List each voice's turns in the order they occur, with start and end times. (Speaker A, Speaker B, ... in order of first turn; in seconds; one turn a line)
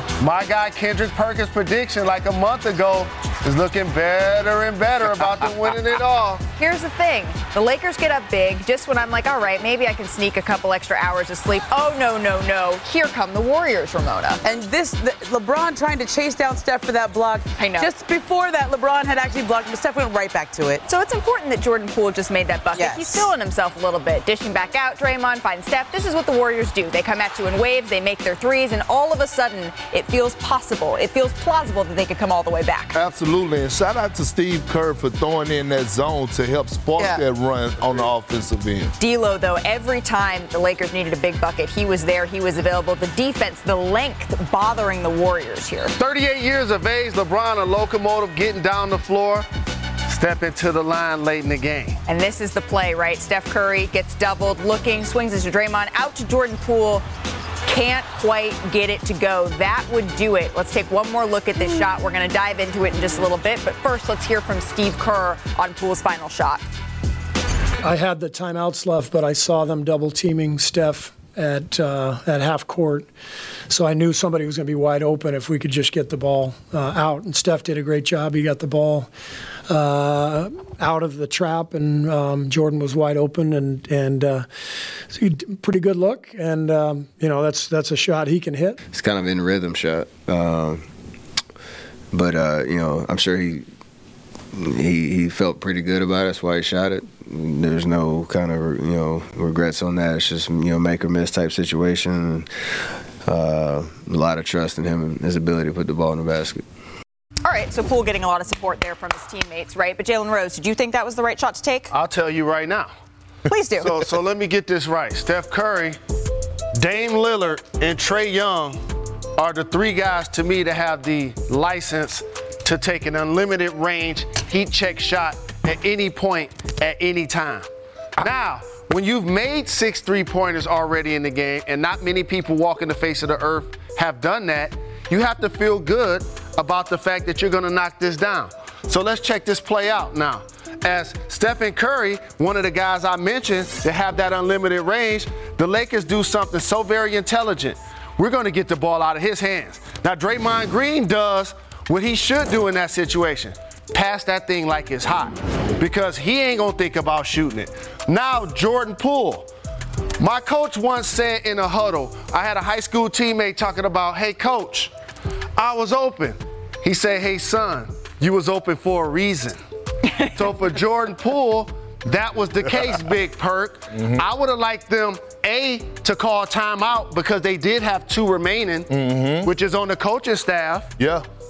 Speaker A: 0.2-6.4
Speaker B: 6.6-14.4
Speaker C: 14.4-20.8
Speaker B: 17.6-17.9
Speaker B: 20.9-33.0
Speaker C: 22.8-23.3
Speaker D: 32.9-38.9
Speaker B: 39.0-45.9
Speaker A: 46.0-49.5
Speaker A: 50.1-52.0
Speaker B: 52.0-57.0
Speaker B: 57.6-66.6
Speaker E: 67.8-73.1
Speaker E: 73.7-79.1
Speaker E: 79.7-84.5
Speaker E: 85.1-88.8
Speaker F: 88.9-90.8
Speaker F: 92.1-93.7
Speaker F: 94.5-102.5
Speaker F: 103.2-106.7
Speaker B: 107.4-111.9
Speaker A: 111.9-112.9
Speaker B: 113.5-114.1
Speaker A: 113.8-116.0
Speaker A: 116.8-118.8
Speaker A: 119.4-159.5
Speaker A: 160.2-164.9
Speaker A: 165.6-169.6
Speaker A: 170.3-178.9
Speaker D: 173.9-174.2
Speaker D: 178.9-179.5
Speaker A: 179.4-180.9
Speaker D: 181.0-181.2